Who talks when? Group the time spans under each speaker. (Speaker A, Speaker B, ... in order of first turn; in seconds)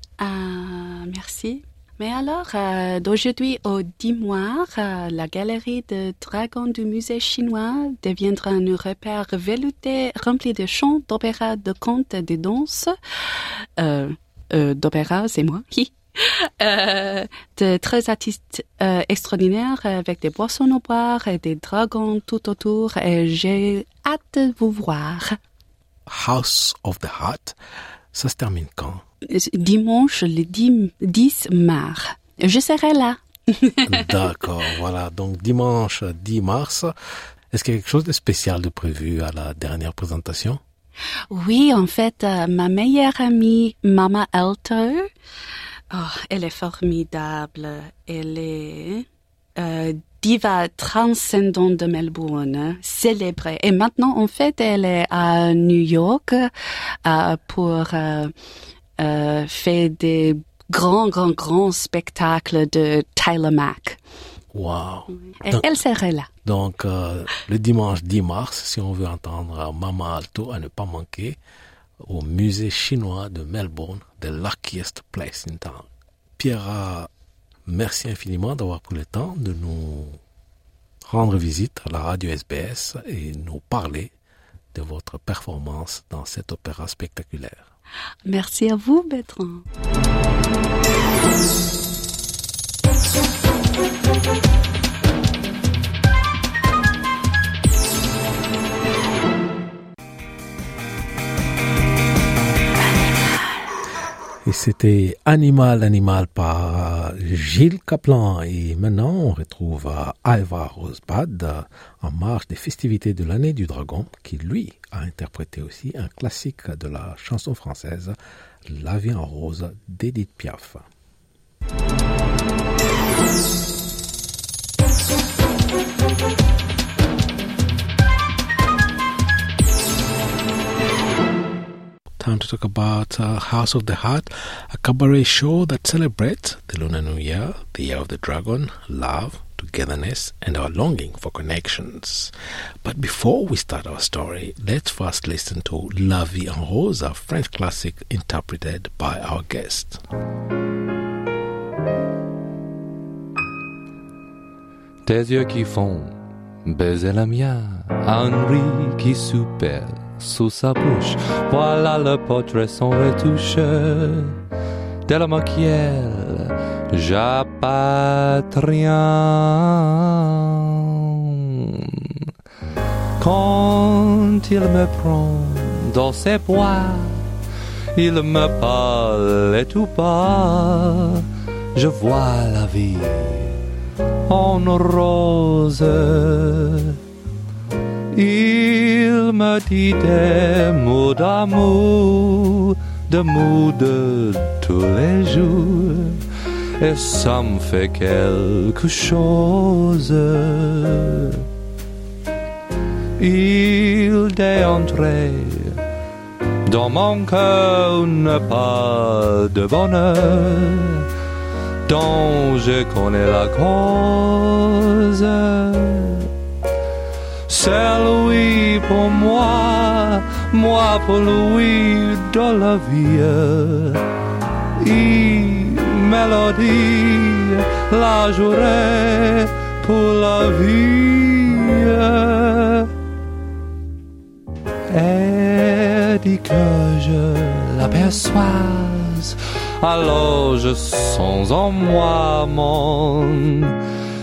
Speaker A: 0.2-25.4, 29.3-34.3, 41.3-45.1, 45.9-49.0, 49.6-56.5, 57.0-58.3, 59.0-64.0, 65.4-66.3, 88.3-89.6
Speaker B: 26.1-27.6, 28.1-29.0, 33.8-36.9, 37.5-40.6, 64.5-65.8, 66.4-71.4, 72.0-77.1, 77.7-80.2, 81.0-84.1, 84.7-87.7, 104.4-120.9, 132.2-142.3, 142.8-150.0
Speaker C: 155.1-164.3, 165.1-172.3, 173.2-177.2, 177.9-181.2, 181.7-183.6, 184.3-187.0, 188.1-196.2, 196.8-201.4, 203.2-205.8, 206.7-211.1, 211.8-216.3, 217.5-224.0, 224.8-232.9, 234.9-243.7